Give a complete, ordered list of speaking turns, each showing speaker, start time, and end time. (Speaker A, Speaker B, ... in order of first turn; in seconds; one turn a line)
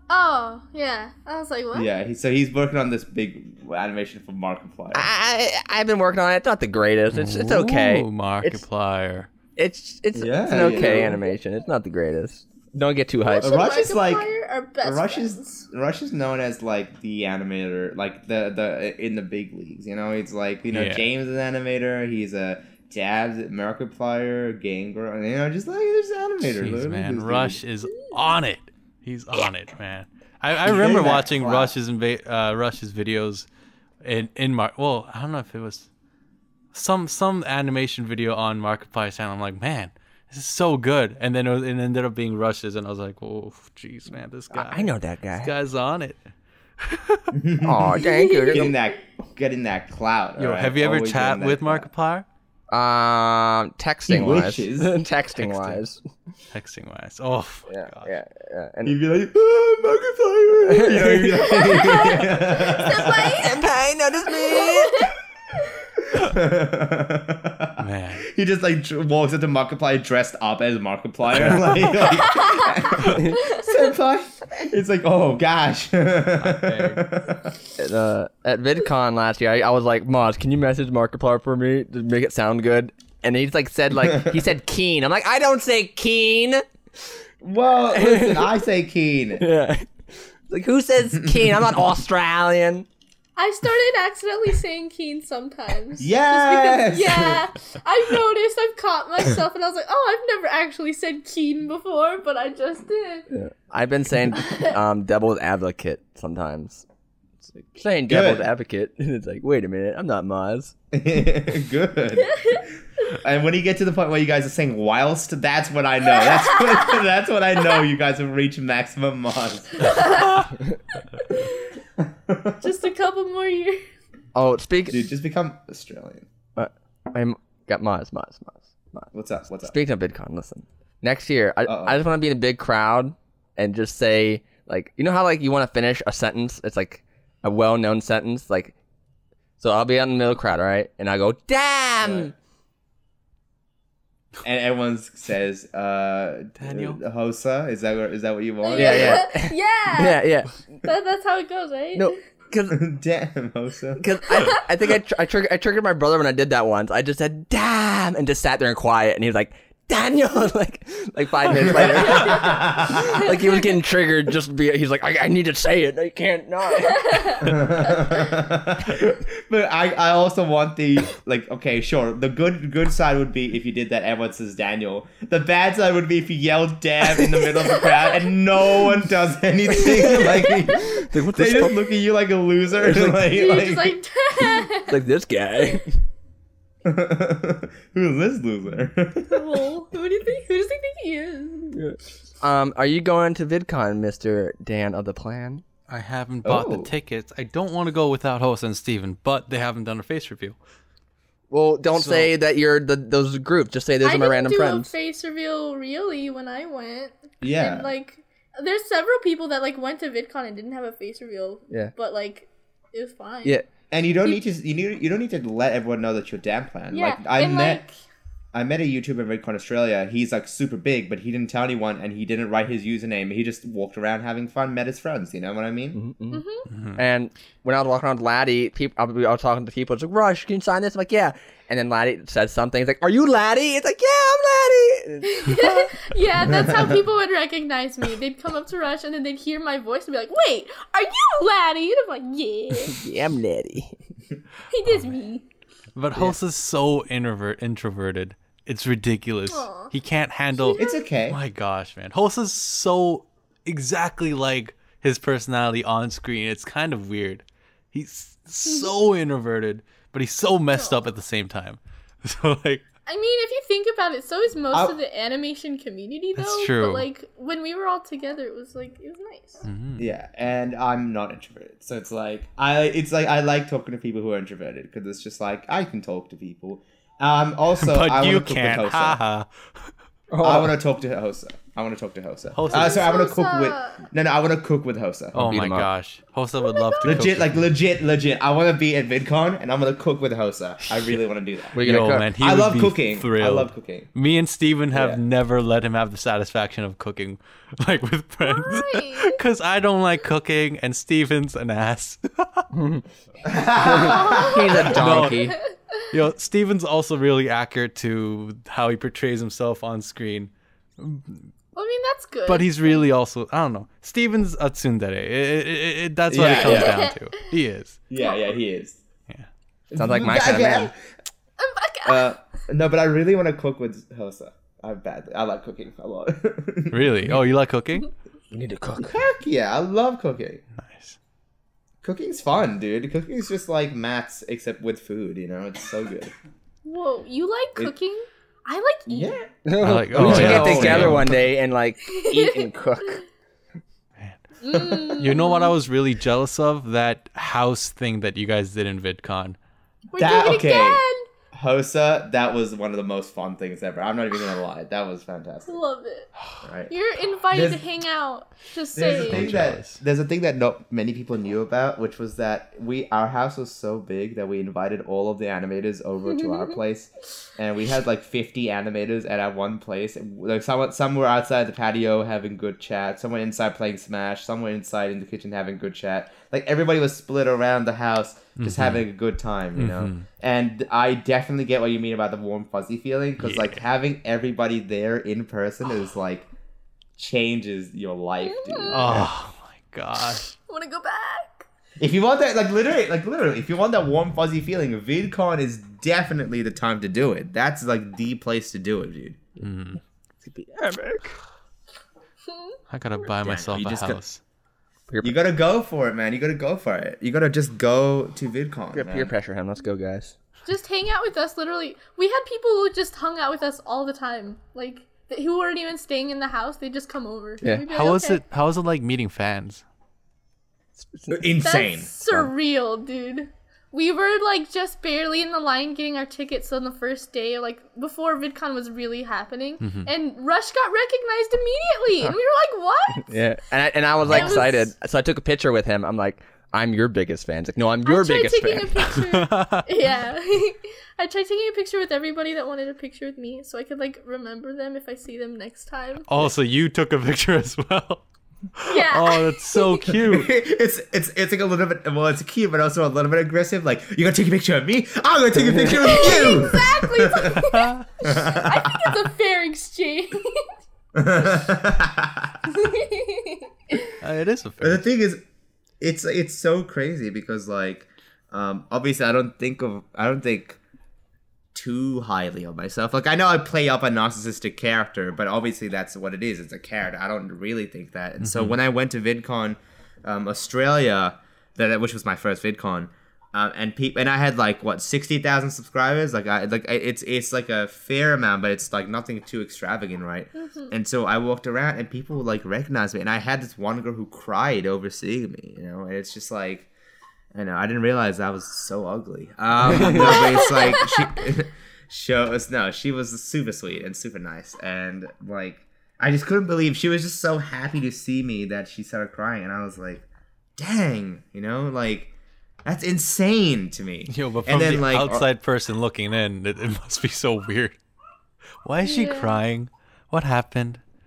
Speaker A: 0.1-1.9
Speaker B: 1.7-5.1
Speaker C: 4.9-8.6
Speaker D: 7.1-9.3
Speaker C: 9.6-13.5
Speaker B: 10.1-11.2
Speaker A: 10.6-11.1
Speaker A: 13.2-15.6
Speaker B: 13.4-14.2
Speaker B: 14.8-27.6
Speaker D: 20.7-21.1
Speaker D: 26.5-33.5
Speaker B: 30.6-31.7
Speaker D: 34.0-35.9
Speaker D: 36.7-46.2
Speaker C: 44.5-45.5
Speaker D: 46.8-47.3
Speaker B: 47.3-51.9
Speaker C: 47.6-48.7
Speaker A: 48.0-48.5
Speaker D: 50.4-52.2
Speaker C: 52.7-56.0
Speaker B: 54.1-55.0
Speaker D: 55.3-55.8
Speaker D: 56.5-58.1
Speaker C: 57.7-58.9
Speaker B: 58.8-63.5
Speaker C: 60.7-61.9
Speaker A: 61.3-63.6
Speaker C: 63.3-65.2
Speaker A: 64.4-65.1
Speaker B: 65.9-77.6
Speaker D: 67.8-68.3
Speaker D: 71.3-71.7
Speaker C: 71.3-71.6
Speaker A: 72.1-73.9
Speaker C: 73.0-73.4
Speaker D: 76.4-77.1
Speaker C: 77.8-87.1
Speaker B: 87.4-89.4
Speaker C: 87.9-88.5
Speaker C: 89.4-92.9
Speaker B: 91.1-91.6
Speaker A: 93.4-103.3
Speaker B: 96.0-97.5
Speaker C: 103.3-106.8
Speaker C: 107.5-110.7
Speaker B: 108.1-108.5
Speaker B: 110.9-120.2
Speaker A: 112.3-112.6
Speaker A: 116.2-117.0
Speaker A: 119.8-120.4
Speaker A: 121.1-121.7
Speaker B: 122.0-122.6
Speaker A: 122.6-123.8
Speaker C: 124.3-125.1
Speaker B: 124.9-126.3
Speaker C: 126.5-129.1
Speaker B: 129.1-129.7
Speaker C: 129.7-138.7
Speaker B: 131.6-132.0
Speaker C: 139.6-142.3
Speaker B: 142.0-142.3
Speaker B: 144.4-149.2
Speaker D: 146.6-147.0
Speaker A: 148.6-152.2
Speaker C: 148.8-150.5
Speaker C: 151.9-152.8
Speaker B: 152.7-154.0
Speaker C: 154.0-167.6
Speaker B: 161.5-163.2
Speaker A: 162.1-162.4
Speaker B: 167.4-184.0
Speaker C: 179.7-181.9
Speaker A: 179.8-180.8
Speaker C: 182.8-183.2
Speaker A: 183.3-185.0
Speaker C: 184.9-185.9
Speaker B: 186.8-189.6
Speaker A: 189.3-191.8
Speaker C: 191.7-195.6
Speaker D: 195.9-200.6
Speaker B: 196.4-196.9
Speaker C: 201.5-204.9
Speaker D: 201.9-202.3
Speaker A: 204.0-213.6
Speaker B: 207.4-207.9
Speaker B: 213.9-217.8
Speaker A: 216.9-217.9
Speaker B: 218.5-226.0
Speaker C: 225.9-226.4
Speaker A: 226.3-226.7
Speaker D: 226.7-227.0
Speaker C: 226.9-236.5
Speaker A: 235.2-243.0
Speaker C: 242.8-243.9
Speaker A: 244.7-245.4
Speaker D: 244.8-245.1
Speaker D: 245.9-262.8
Speaker A: 249.5-249.9
Speaker A: 250.6-251.0
Speaker B: 250.8-251.4
Speaker A: 263.1-269.6
Speaker D: 266.4-267.1
Speaker D: 269.6-270.0
Speaker B: 270.0-279.2
Speaker D: 277.8-279.9
Speaker C: 280.3-280.7
Speaker B: 280.4-285.6
Speaker D: 282.5-283.1
Speaker A: 282.7-284.0
Speaker D: 285.3-287.6
Speaker C: 285.5-285.9
Speaker A: 286.6-287.2
Speaker B: 287.0-294.1
Speaker C: 291.7-292.3
Speaker D: 291.7-302.7
Speaker B: 294.9-295.2
Speaker A: 298.4-299.4
Speaker C: 302.7-303.0
Speaker B: 303.4-304.9
Speaker C: 303.8-305.6
Speaker A: 303.8-304.8
Speaker D: 304.8-311.5
Speaker A: 305.6-306.0
Speaker A: 311.7-313.0
Speaker D: 312.4-318.0
Speaker B: 316.3-317.1
Speaker A: 316.6-317.3
Speaker B: 318.1-319.0
Speaker B: 319.9-321.0
Speaker C: 319.9-320.9
Speaker A: 321.6-322.3
Speaker B: 322.0-327.4
Speaker D: 326.9-328.1
Speaker C: 328.5-329.2
Speaker B: 329.0-330.6
Speaker D: 330.8-331.2
Speaker B: 332.0-336.3
Speaker A: 336.8-339.4
Speaker B: 339.1-339.5
Speaker C: 339.6-343.2
Speaker D: 339.8-341.4
Speaker B: 340.1-341.4
Speaker A: 342.1-342.7
Speaker A: 344.6-345.7
Speaker B: 344.7-345.3
Speaker D: 345.0-349.6
Speaker A: 350.1-351.3
Speaker B: 350.2-355.8
Speaker A: 355.7-356.3
Speaker B: 356.6-356.9
Speaker A: 356.9-359.5
Speaker B: 357.5-357.8
Speaker B: 358.9-386.5
Speaker D: 359.1-360.0
Speaker D: 378.6-379.0
Speaker D: 379.7-380.3
Speaker D: 383.4-383.8
Speaker B: 387.2-389.3
Speaker A: 388.4-389.2
Speaker D: 388.9-390.4
Speaker A: 390.4-391.6
Speaker B: 392.0-399.4
Speaker D: 399.6-400.0
Speaker C: 400.4-401.4
Speaker D: 402.9-404.4
Speaker B: 403.4-404.2
Speaker C: 405.1-405.4
Speaker B: 405.2-409.3
Speaker C: 408.9-410.3
Speaker A: 410.6-418.4
Speaker D: 417.9-419.8
Speaker C: 421.0-421.5
Speaker B: 421.3-422.5
Speaker A: 421.6-433.4
Speaker D: 429.8-430.1
Speaker C: 433.1-439.1
Speaker D: 434.2-434.7
Speaker A: 434.3-434.9
Speaker A: 438.0-446.2
Speaker D: 439.1-439.9
Speaker D: 446.3-448.2
Speaker D: 448.8-450.5
Speaker A: 448.9-450.1
Speaker B: 450.2-457.7
Speaker A: 456.0-460.7
Speaker D: 457.7-458.0
Speaker B: 458.2-459.1
Speaker B: 461.1-462.6
Speaker A: 462.7-464.1
Speaker D: 464.2-465.1
Speaker B: 464.8-465.4
Speaker B: 466.0-470.8
Speaker B: 471.7-496.9
Speaker D: 478.4-478.7
Speaker A: 490.6-490.9
Speaker B: 497.5-512.3
Speaker C: 499.8-500.4
Speaker A: 500.1-501.2
Speaker B: 512.8-515.5
Speaker D: 514.3-518.0
Speaker D: 518.8-521.0
Speaker A: 519.0-519.6